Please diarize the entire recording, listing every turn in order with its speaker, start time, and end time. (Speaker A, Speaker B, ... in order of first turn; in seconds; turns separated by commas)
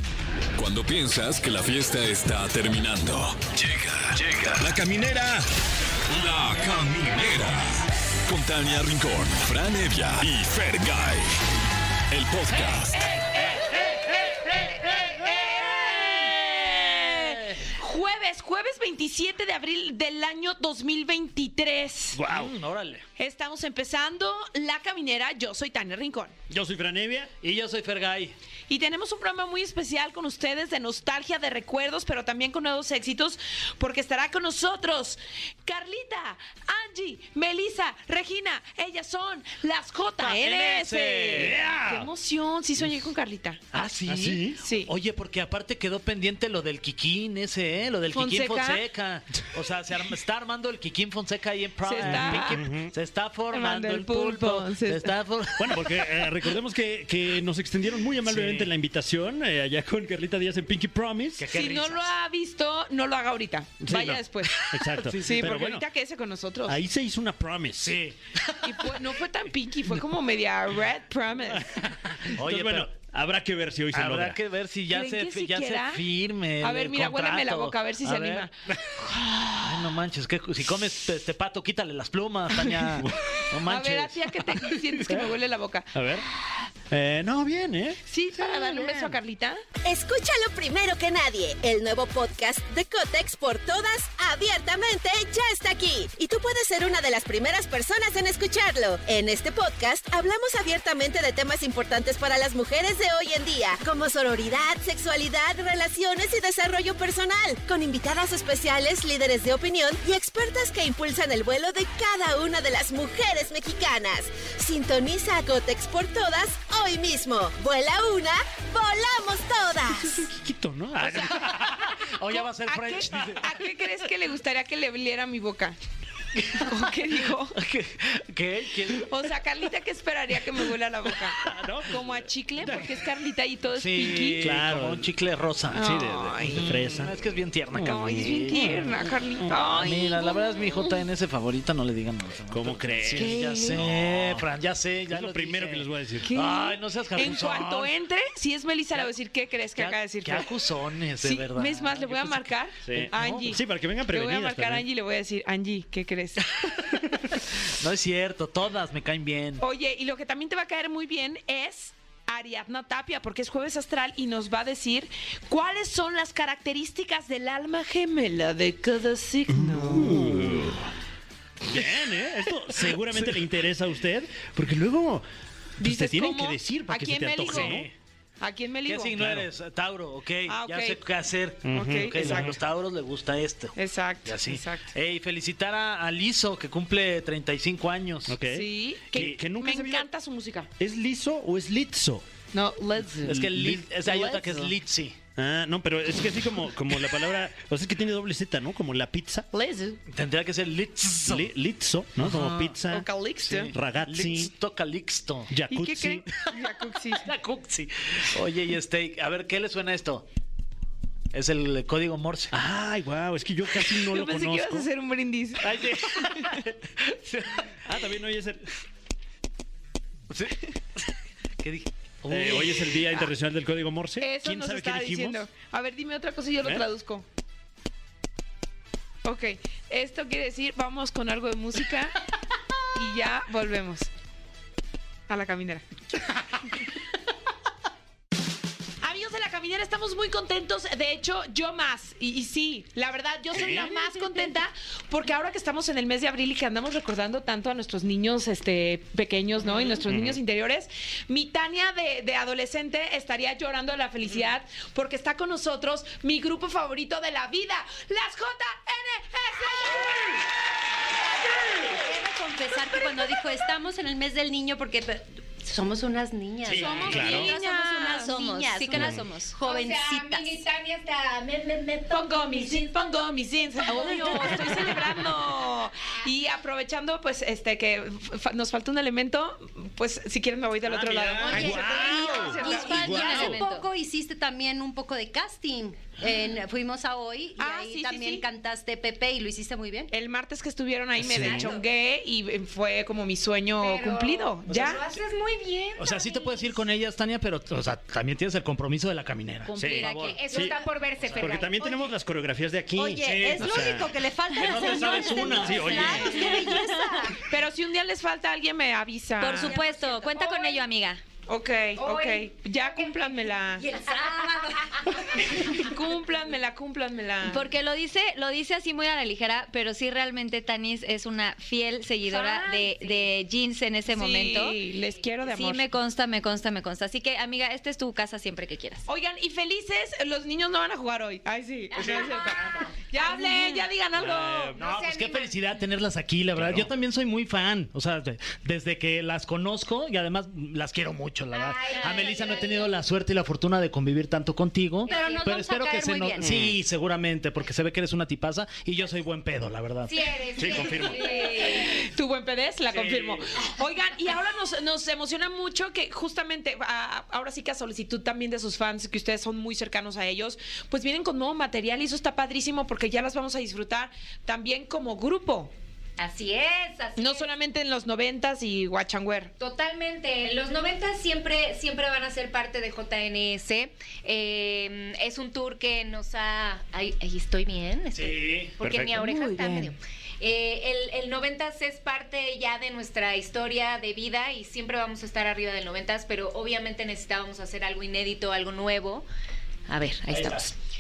Speaker A: 0.6-5.5, Speaker A: 6.1-11.3, Speaker A: 12.1-13.0, Speaker B: 12.9-22.2, Speaker C: 13.8-15.2, Speaker C: 16.2-17.7, Speaker D: 22.1-22.6, Speaker C: 22.3-23.1, Speaker B: 23.2-26.4, Speaker D: 26.5-27.3, Speaker C: 27.4-28.4, Speaker B: 28.7-43.6, Speaker C: 40.2-42.1, Speaker D: 41.4-42.0, Speaker C: 43.7-56.3, Speaker D: 44.1-44.6, Speaker B: 44.6-44.9, Speaker B: 48.1-48.8, Speaker B: 51.8-52.6, Speaker D: 52.0-52.9, Speaker B: 53.5-55.1, Speaker D: 55.6-61.6, Speaker C: 58.2-58.7, Speaker C: 61.4-62.1, Speaker B: 61.5-66.8, Speaker D: 63.8-65.9, Speaker C: 65.0-65.7, Speaker D: 66.7-68.0, Speaker C: 67.8-69.0, Speaker B: 68.6-71.8, Speaker D: 72.2-74.4, Speaker C: 72.4-73.0, Speaker C: 73.9-85.3, Speaker B: 74.9-76.1, Speaker B: 76.6-79.9, Speaker D: 82.7-83.4, Speaker B: 83.7-86.0, Speaker D: 85.9-86.2, Speaker D: 86.9-88.0, Speaker B: 88.1-89.6, Speaker C: 88.8-89.1, Speaker E: 89.8-120.2, Speaker D: 120.1-121.6, Speaker C: 121.0-123.6, Speaker B: 121.2-125.8, Speaker C: 126.3-129.1, Speaker B: 126.6-127.6, Speaker B: 128.9-134.4, Speaker D: 131.4-133.0, Speaker C: 133.7-139.0, Speaker D: 134.4-135.1, Speaker B: 135.7-136.7, Speaker D: 135.7-137.2, Speaker D: 137.7-138.0, Speaker B: 137.8-141.0, Speaker D: 139.4-139.8, Speaker C: 139.6-147.9, Speaker D: 142.5-144.5, Speaker B: 143.1-143.9, Speaker D: 145.1-146.3, Speaker B: 146.2-150.6, Speaker C: 149.8-153.6, Speaker B: 151.2-156.8, Speaker D: 152.8-154.9, Speaker C: 156.4-159.6, Speaker B: 159.6-170.5, Speaker D: 169.5-170.9, Speaker D: 171.7-175.3, Speaker D: 175.8-177.9, Speaker B: 175.8-177.9, Speaker C: 177.5-177.9, Speaker B: 178.4-179.2, Speaker C: 178.8-183.7, Speaker D: 179.2-179.5, Speaker B: 180.5-181.0, Speaker D: 181.6-182.6, Speaker B: 181.7-182.6, Speaker B: 183.8-184.9, Speaker C: 184.2-188.4, Speaker D: 188.3-190.1, Speaker B: 188.5-190.7, Speaker D: 190.8-192.3, Speaker B: 192.5-193.4, Speaker D: 193.2-193.9, Speaker C: 193.2-195.2, Speaker B: 194.0-194.7, Speaker D: 195.4-199.5, Speaker B: 199.5-200.0, Speaker C: 200.1-201.5, Speaker D: 201.2-204.5, Speaker C: 202.2-202.8, Speaker B: 202.9-203.7, Speaker C: 203.5-205.6, Speaker D: 205.5-206.3, Speaker B: 205.7-207.3, Speaker C: 207.1-210.2, Speaker C: 211.3-212.5, Speaker D: 212.5-214.9, Speaker B: 213.9-216.6, Speaker C: 215.6-218.0, Speaker D: 217.8-218.6, Speaker C: 220.3-220.7, Speaker C: 221.6-223.3, Speaker D: 222.3-225.4, Speaker B: 224.2-227.2, Speaker B: 229.2-232.2, Speaker B: 232.9-234.1, Speaker B: 235.3-235.8, Speaker B: 239.0-260.4, Speaker D: 243.5-244.0, Speaker D: 250.1-250.4, Speaker F: 261.8-270.6, Speaker D: 266.7-267.5, Speaker C: 266.8-267.3, Speaker B: 266.8-268.2, Speaker G: 267.2-269.6, Speaker H: 269.6-273.0, Speaker B: 272.1-283.3, Speaker H: 273.8-274.9, Speaker C: 280.9-282.1, Speaker F: 281.4-290.1, Speaker D: 281.5-283.5, Speaker G: 282.6-283.8, Speaker H: 283.4-283.7, Speaker B: 287.6-288.4, Speaker B: 290.1-295.0, Speaker D: 291.2-291.7, Speaker H: 291.4-291.8, Speaker H: 293.8-296.8, Speaker C: 294.7-294.9, Speaker C: 296.0-300.7, Speaker G: 299.7-300.3, Speaker D: 299.8-304.1, Speaker H: 299.9-302.0, Speaker F: 303.0-307.4, Speaker C: 303.2-303.9, Speaker C: 304.5-306.1, Speaker D: 305.5-306.4, Speaker B: 306.1-306.6, Speaker G: 306.1-307.0, Speaker B: 307.4-309.8, Speaker G: 309.4-311.2, Speaker F: 309.6-310.8, Speaker B: 311.5-313.9, Speaker H: 312.0-313.6, Speaker F: 313.8-315.6, Speaker B: 315.4-317.6, Speaker G: 317.4-324.8, Speaker B: 324.1-325.9, Speaker G: 325.4-329.1, Speaker B: 329.1-334.7, Speaker H: 331.9-333.8, Speaker D: 334.1-334.8, Speaker C: 334.8-350.3, Speaker H: 334.8-335.6, Speaker D: 336.5-336.9, Speaker H: 341.5-342.9, Speaker H: 345.1-345.6, Speaker F: 345.1-346.7, Speaker D: 346.4-346.8, Speaker H: 350.1-352.0, Speaker D: 350.6-351.3, Speaker G: 351.2-351.6, Speaker B: 351.6-365.7, Speaker C: 352.9-353.3, Speaker H: 366.2-367.5, Speaker B: 367.2-369.5, Speaker H: 369.6-389.2, Speaker C: 378.1-378.8, Speaker D: 378.8-379.3, Speaker H: 389.9-390.7, Speaker C: 390.3-390.7